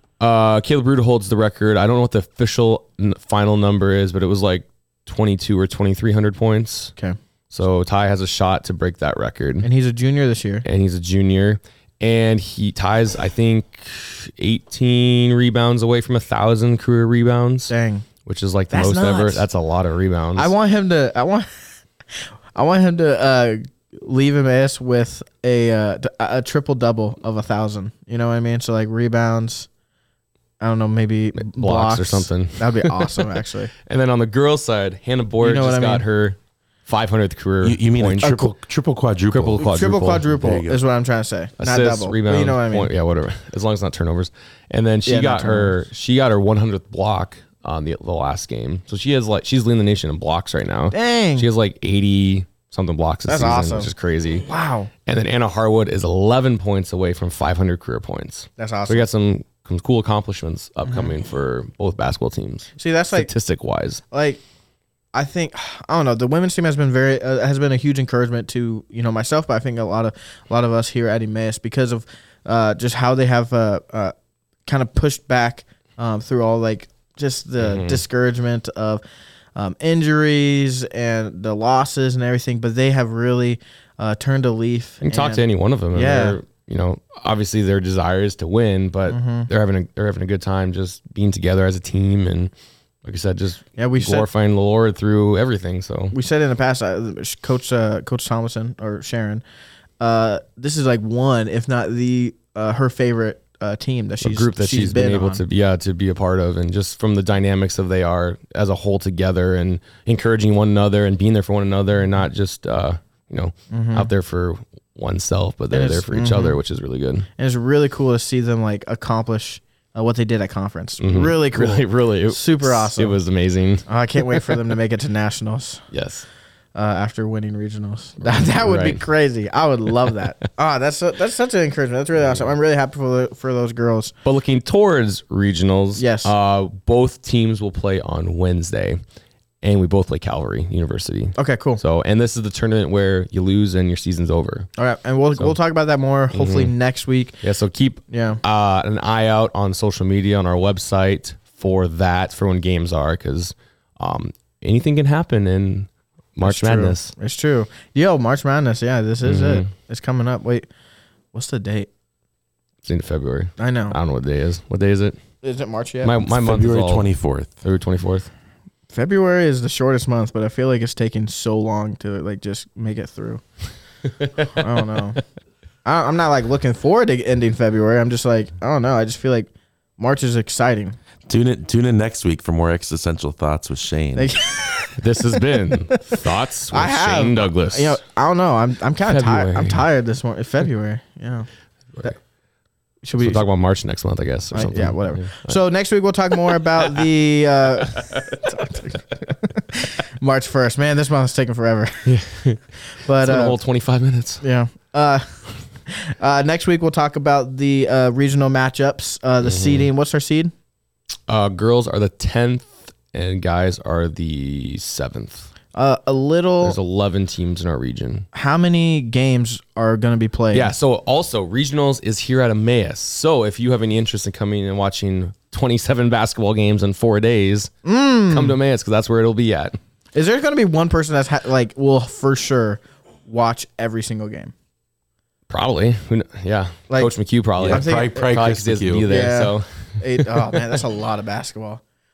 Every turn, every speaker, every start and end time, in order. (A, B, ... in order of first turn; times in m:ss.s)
0:00.2-0:06.9 A
0:07.5-0:09.7 A
0:09.6-0:10.7 B
0:10.6-0:17.7 A
0:17.7-0:18.1 B
0:18.3-0:20.5 A
0:18.7-0:19.5 B
0:20.4-0:21.5 B
0:22.6-0:29.7 B
0:30.6-0:33.7 B
0:31.4-0:38.4 A
0:35.4-0:36.1 B
0:37.6-0:40.8 C
0:38.2-0:38.5 B
0:39.3-0:40.3 A
0:39.6-0:42.9 B
0:41.6-0:54.4 A
0:45.1-0:45.7 B
0:50.9-0:51.5 B
0:53.3-0:53.9 B
0:54.4-0:54.9 B
0:55.1-1:04.0 A
0:58.6-0:59.1 B
1:02.8-1:03.3 B
1:04.1-1:04.4 B
1:05.1-1:14.1 B
1:14.7-1:19.0 B
1:17.6-1:18.0 A
1:19.6-1:26.4 B
1:25.0-1:32.5 A
1:29.1-1:29.5 B
1:33.0-1:36.1 A
1:33.8-1:34.3 B
1:36.1-1:39.4 B
1:40.0-1:45.4 B
1:44.2-1:57.3 A
1:53.7-1:54.1 B
1:55.7-1:56.6 B
1:57.4-2:03.2 B
2:01.0-2:04.6 A
2:03.9-2:05.8 B
2:05.9-2:06.3 A
2:06.8-2:14.1 B
2:08.2-2:09.0 A
2:12.2-2:12.5 A
2:14.2-2:19.0 A
2:16.0-2:16.3 B
2:19.6-2:24.7 A
2:21.4-2:21.8 B
2:24.8-2:27.4 B
2:26.3-2:26.7 A
2:27.4-2:37.1 A
2:28.1-2:28.4 B
2:36.4-2:40.7 B
2:39.2-2:39.7 A
2:41.3-2:41.9 B
2:42.8-2:45.2 A
2:43.6-2:44.0 B
2:45.4-2:46.3 B
2:46.0-2:47.1 A
2:46.3-2:47.6 C
2:47.6-2:48.3 A
2:48.9-2:53.4 B
2:54.4-2:55.2 B
2:55.8-3:01.0 B
3:01.3-3:04.4 C
3:04.2-3:11.5 B
3:05.0-3:08.0 A
3:09.0-3:09.8 A
3:13.0-3:13.4 B
3:13.2-3:15.6 A
3:14.5-3:22.1 B
3:17.9-3:18.4 A
3:22.0-3:22.6 A
3:23.0-3:23.6 B
3:23.2-3:24.4 A
3:24.4-3:25.4 B
3:25.9-3:30.5 B
3:29.4-3:29.9 A
3:31.3-3:35.5 A
3:35.7-3:36.8 B
3:36.6-3:38.3 A
3:38.3-3:40.7 B
3:40.5-3:47.7 A
3:47.8-3:48.6 B
3:48.3-3:49.8 A
3:50.2-3:54.5 B
3:55.5-4:00.8 A
3:57.6-3:59.1 C
3:57.7-3:58.3 B
3:59.1-4:01.8 B